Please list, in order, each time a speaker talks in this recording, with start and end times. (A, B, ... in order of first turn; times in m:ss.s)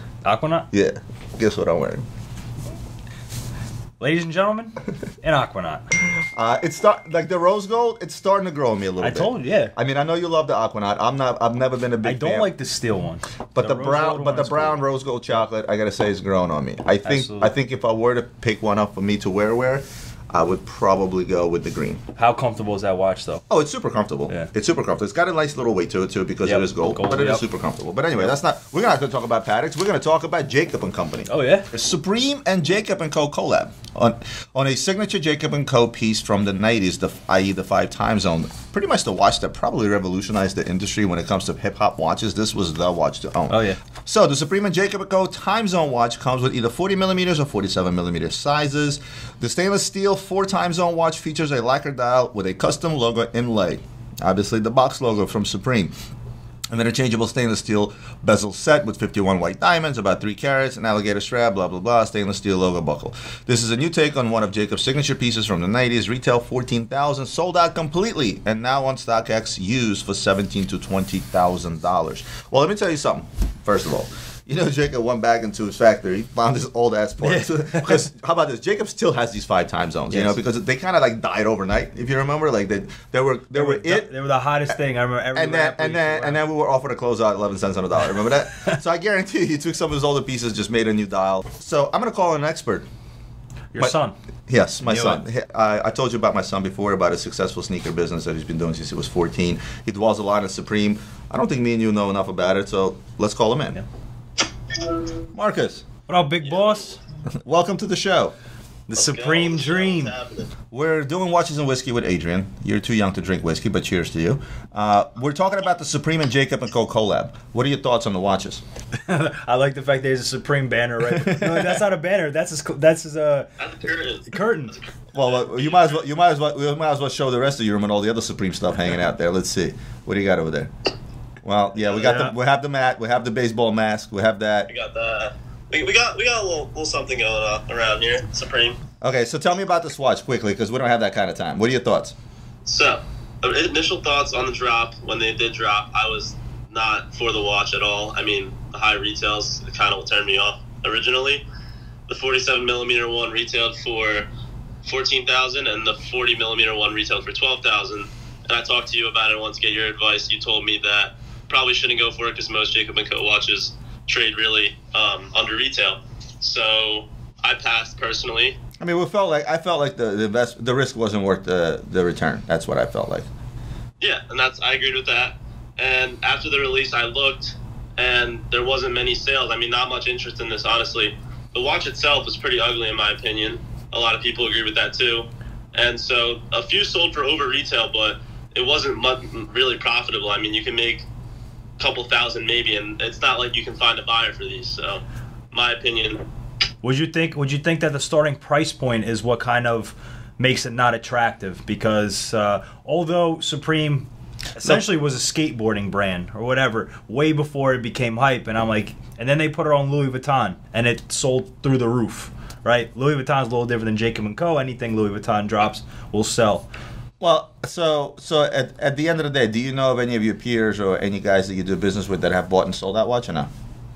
0:00.2-0:00.7 A
0:00.7-0:02.0 B
0:04.0-0:05.9 A
0:06.2-0:12.5 B
0:09.0-0:09.8 A
0:12.0-0:14.8 A
0:13.6-0:22.0 B
0:17.0-0:17.5 A
0:22.2-0:23.4 A
0:23.5-0:56.0 B
0:26.4-0:27.4 A
0:31.3-0:31.7 A
0:43.5-0:43.8 A
0:56.7-1:24.1 B
1:17.2-1:18.1 A
1:20.1-1:20.4 A
1:23.5-1:26.4 A
1:25.3-1:32.9 B
1:33.7-1:34.2 A
1:34.5-1:43.8 B
1:34.8-1:35.2 A
1:45.3-1:45.9 B
1:46.1-1:47.0 A
1:47.4-1:48.4 B
1:48.9-1:50.2 A
1:49.0-1:50.5 C
1:50.7-1:58.6 B
1:59.0-2:03.5 A
2:01.0-2:01.8 B
2:03.6-2:04.4 C
2:04.3-2:04.8 A
2:05.1-2:10.7 B
2:11.4-2:14.7 B
2:11.9-2:12.4 A
2:14.7-2:18.8 C
2:19.0-2:22.2 B
2:22.6-2:31.4 C
2:32.1-2:34.3 C
2:34.8-2:48.6 C
2:48.8-2:53.3 B
2:54.0-3:11.0 C
3:11.8-3:16.2 C
3:16.8-3:36.7 A
3:37.2-3:43.5 B